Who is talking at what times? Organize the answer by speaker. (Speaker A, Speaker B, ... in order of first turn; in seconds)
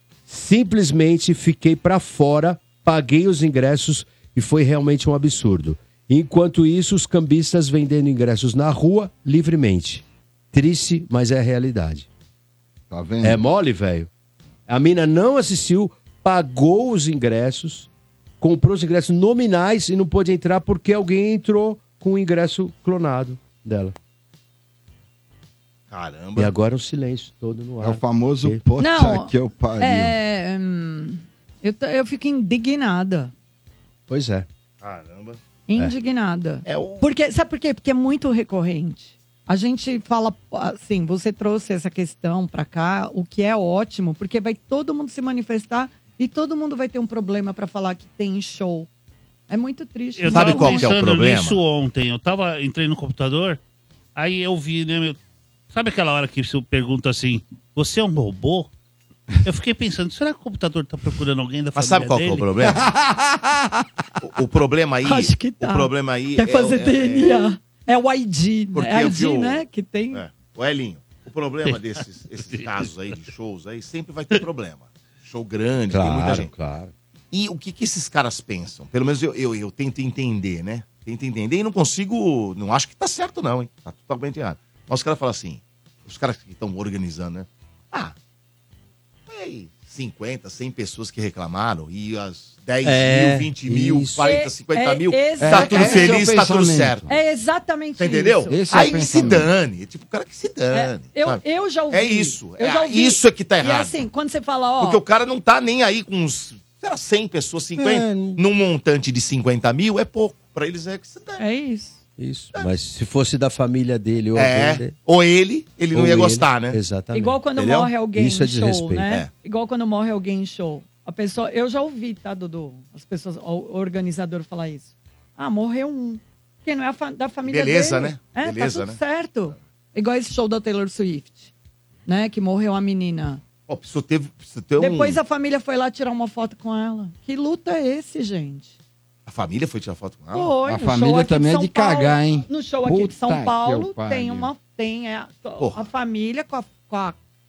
Speaker A: 0.3-12.1, 13.2-14.1, 14.7-17.9, 18.4-23.9, 26.4-28.6, 34.1-34.5, 75.9-76.9, 92.8-94.3, 107.8-108.4, 112.2-115.0, 115.9-119.1
Speaker B: 12.9-13.4, 27.8-30.1, 62.6-63.5, 95.4-97.1, 98.5-99.5, 140.6-144.5
Speaker C: 25.9-26.5, 34.8-35.4, 36.6-37.0, 50.3-51.6, 61.8-62.8, 64.2-67.5, 68.7-76.5, 77.3-88.1, 89.3-97.0, 98.0-104.0, 104.8-111.4, 114.3-116.8, 127.4-129.0, 133.7-135.2, 139.2-140.5
Speaker D: 28.8-33.3, 35.7-48.9, 49.5-50.9, 65.0-70.2, 94.2-96.2, 97.1-99.1, 100.7-105.0, 111.4-112.0, 117.1-131.5, 132.1-133.4, 134.8-138.7, 140.3-147.2
Speaker E: 50.2-53.6, 54.1-55.2, 55.7-58.7, 59.4-62.5, 71.6-72.9